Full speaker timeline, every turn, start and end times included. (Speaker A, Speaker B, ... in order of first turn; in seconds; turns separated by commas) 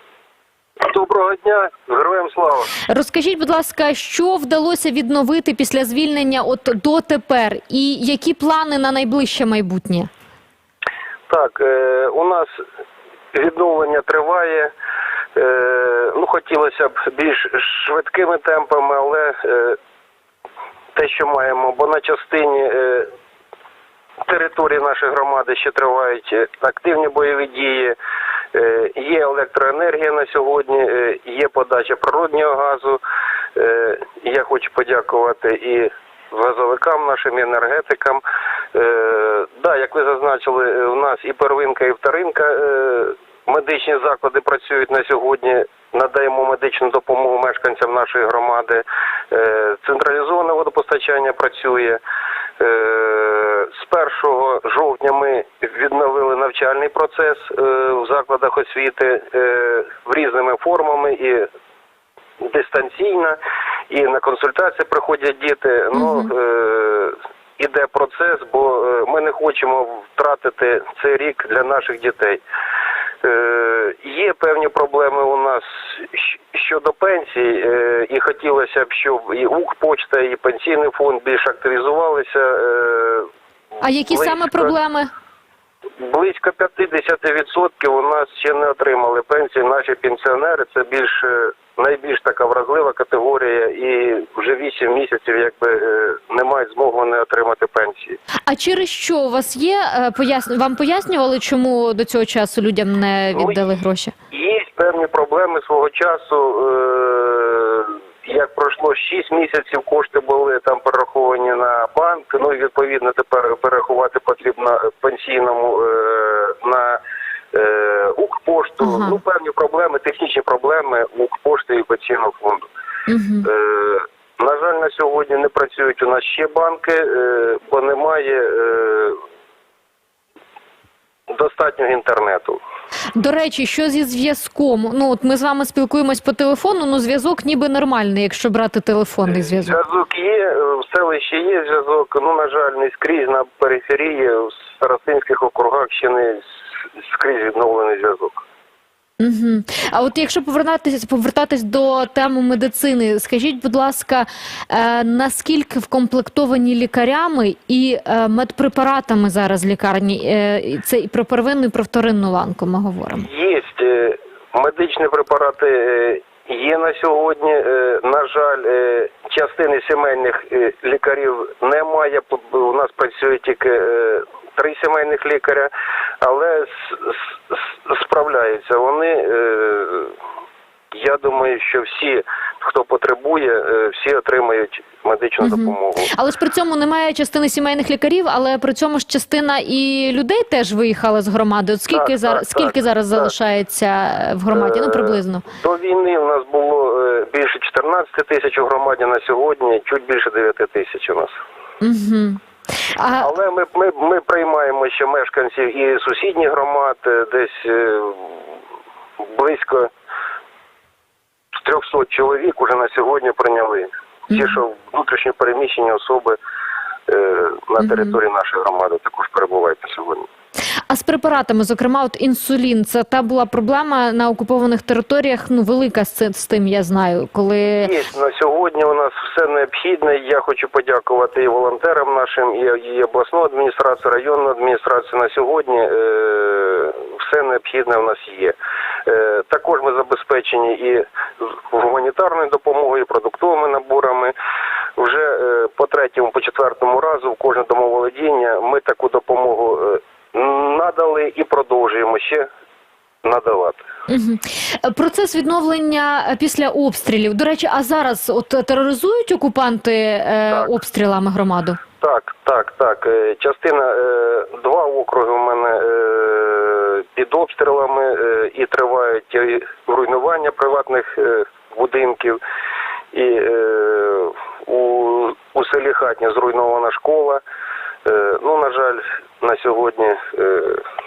Speaker A: 0.8-2.7, Speaker B: 2.9-10.1, Speaker A: 11.3-12.6, Speaker A: 13.3-14.7, Speaker A: 15.3-19.8, Speaker A: 20.9-23.1, Speaker A: 24.2-27.9, Speaker A: 28.5-33.0, Speaker A: 33.5-38.2, Speaker A: 38.7-52.0, Speaker A: 52.6-61.5, Speaker A: 62.4-63.4, Speaker A: 63.9-72.4, Speaker B: 65.9-66.3, Speaker A: 73.2-83.3, Speaker B: 83.8-85.1, Speaker A: 84.1-84.7, Speaker A: 86.0-98.2, Speaker B: 98.5-104.1, Speaker A: 103.3-103.6, Speaker A: 104.3-117.0, Speaker A: 117.5-122.7, Speaker B: 118.8-119.2, Speaker B: 123.1-123.5, Speaker A: 123.4-129.2, Speaker A: 131.3-132.6, Speaker B: 133.1-139.8, Speaker A: 139.3-148.4, Speaker B: 149.2-163.3, Speaker A: 163.2-180.2, Speaker A: 180.9-186.1, Speaker B: 185.4-195.4, Speaker A: 191.9-193.3, Speaker A: 194.5-201.4, Speaker B: 201.8-202.4, Speaker B: 203.0-203.3, Speaker A: 203.2-208.5, Speaker A: 209.2-209.9, Speaker A: 211.6-216.4, Speaker B: 214.3-214.6, Speaker A: 217.1-220.3, Speaker B: 217.8-218.1, Speaker B: 220.9-227.9, Speaker A: 227.8-244.3, Speaker A: 245.0-252.5, Speaker A: 253.2-253.8, Speaker B: 254.1-261.8, Speaker A: 262.0-272.4, Speaker A: 273.1-277.4, Speaker A: 278.0-280.8